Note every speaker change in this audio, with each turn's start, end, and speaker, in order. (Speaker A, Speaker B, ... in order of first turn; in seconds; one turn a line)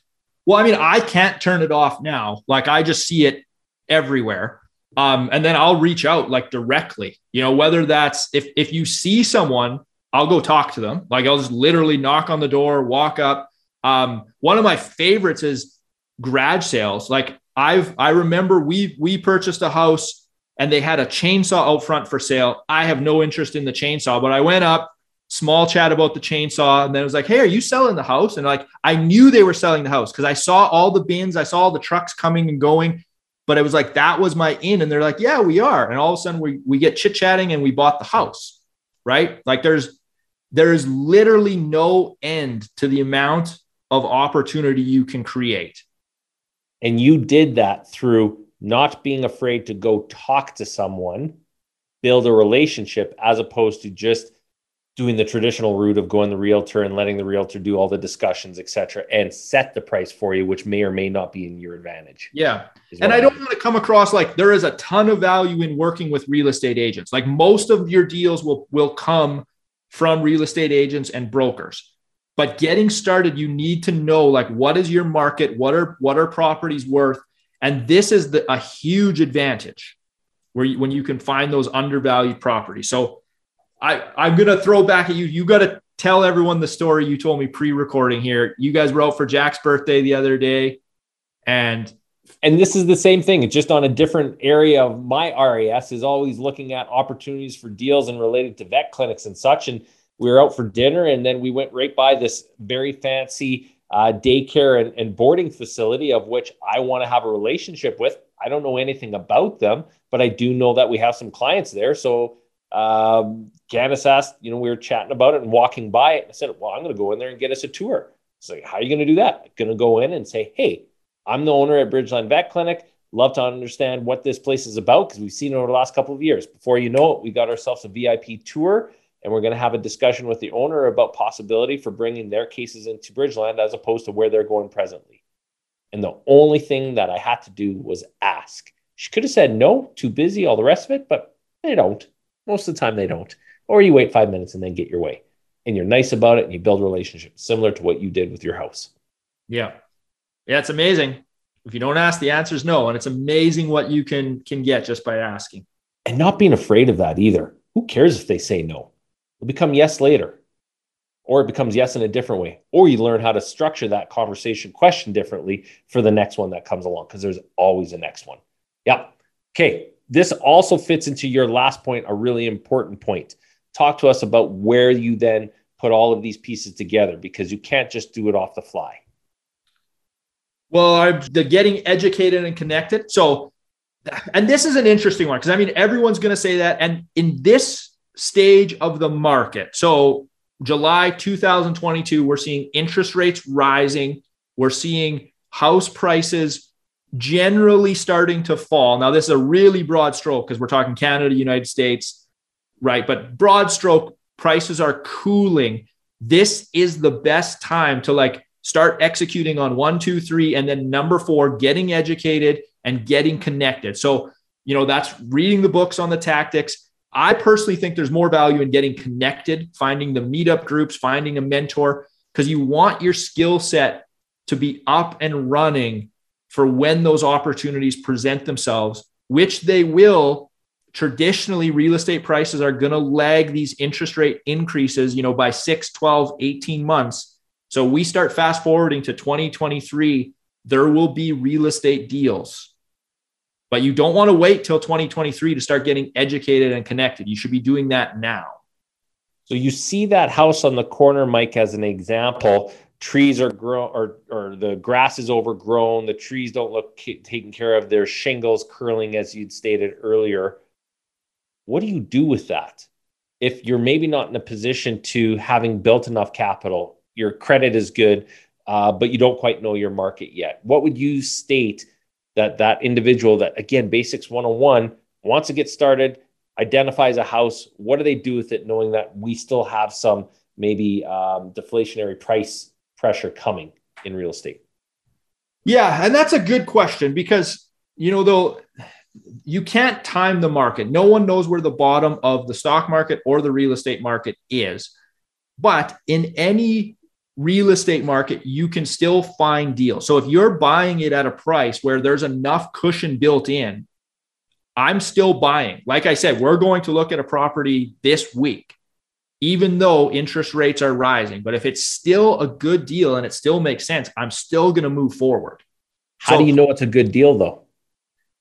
Speaker A: 0.5-39.9
Speaker A: 40.5-45.8
Speaker B: 46.8-51.4
Speaker B: 52.0-54.3
Speaker B: 55.0-62.3
Speaker A: 62.3-80.0
Speaker B: 62.9-63.4
Speaker A: 80.5-83.2
Speaker A: 83.8-90.8
Speaker A: 91.5-92.0
Speaker B: 92.4-135.2
Speaker B: 135.9-148.9
Speaker A: 149.5-149.8
Speaker A: 150.5-155.7
Speaker B: 156.1-160.4
Speaker B: 161.3-179.0
Speaker A: 180.7-183.5
Speaker A: 184.1-202.2
Speaker A: 202.8-242.7
Speaker A: 243.7-248.6
Speaker B: 249.5-260.6
Speaker B: 261.7-262.9
Speaker B: 263.4-284.6
Speaker A: 285.6-288.6
Speaker A: 289.5-294.9
Speaker A: 295.6-303.9
Speaker A: 304.8-308.7
Speaker A: 309.4-315.6
Speaker B: 316.2-317.6
Speaker A: 316.2-316.5